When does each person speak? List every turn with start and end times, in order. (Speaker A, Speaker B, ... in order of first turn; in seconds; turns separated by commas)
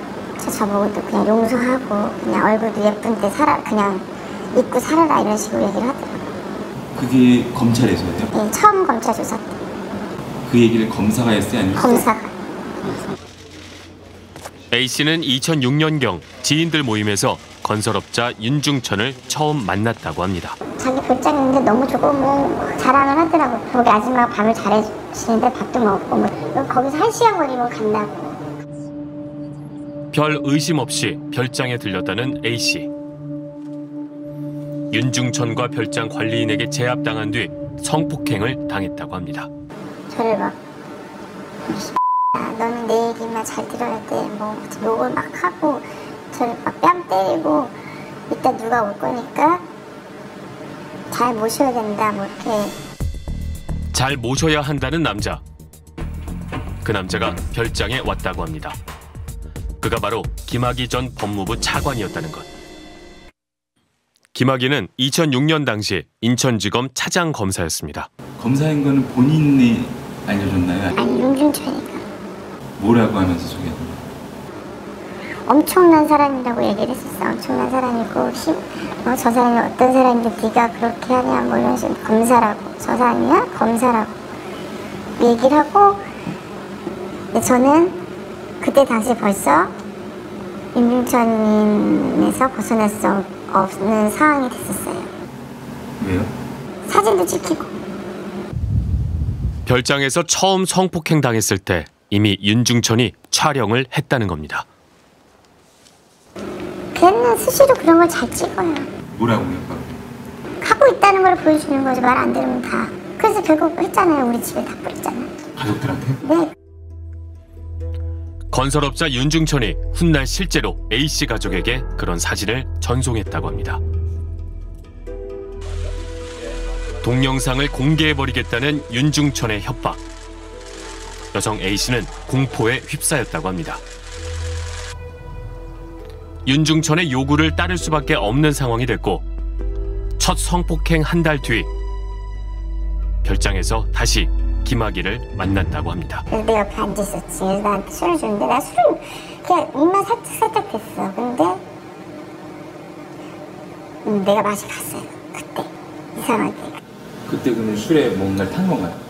Speaker A: 0.4-6.3, Speaker B: 7.0-8.3, Speaker A: 8.3-9.6, Speaker B: 10.5-12.1, Speaker A: 11.8-12.3, Speaker C: 14.7-20.6, Speaker A: 20.8-28.5, Speaker C: 30.1-32.9, Speaker C: 34.9-39.5, Speaker A: 40.1-40.6, Speaker A: 41.7-47.8, Speaker A: 48.3-49.7, Speaker A: 51.1-52.8, Speaker C: 53.9-55.4, Speaker C: 56.8-58.8, Speaker C: 59.8-62.5, Speaker C: 64.3-68.1, Speaker B: 68.4-71.0, Speaker A: 70.9-72.0, Speaker B: 72.8-74.0, Speaker A: 75.5-84.2, Speaker A: 85.2-86.0, Speaker A: 87.3-88.0, Speaker A: 88.6-89.7, Speaker A: 90.8-95.1, Speaker B: 96.0-96.3, Speaker A: 96.9-97.7, Speaker C: 99.7-104.7, Speaker A: 106.9-108.9, Speaker B: 109.2-110.0, Speaker A: 110.6-115.4, Speaker B: 115.6-116.2, Speaker A: 116.2-116.5, Speaker C: 118.5-123.8, Speaker C: 127.0-130.0, Speaker C: 131.3-133.8, Speaker C: 136.5-139.3, Speaker C: 140.2-141.7, Speaker C: 143.2-146.2, Speaker A: 146.3-151.6, Speaker A: 154.1-156.8, Speaker B: 157.3-159.0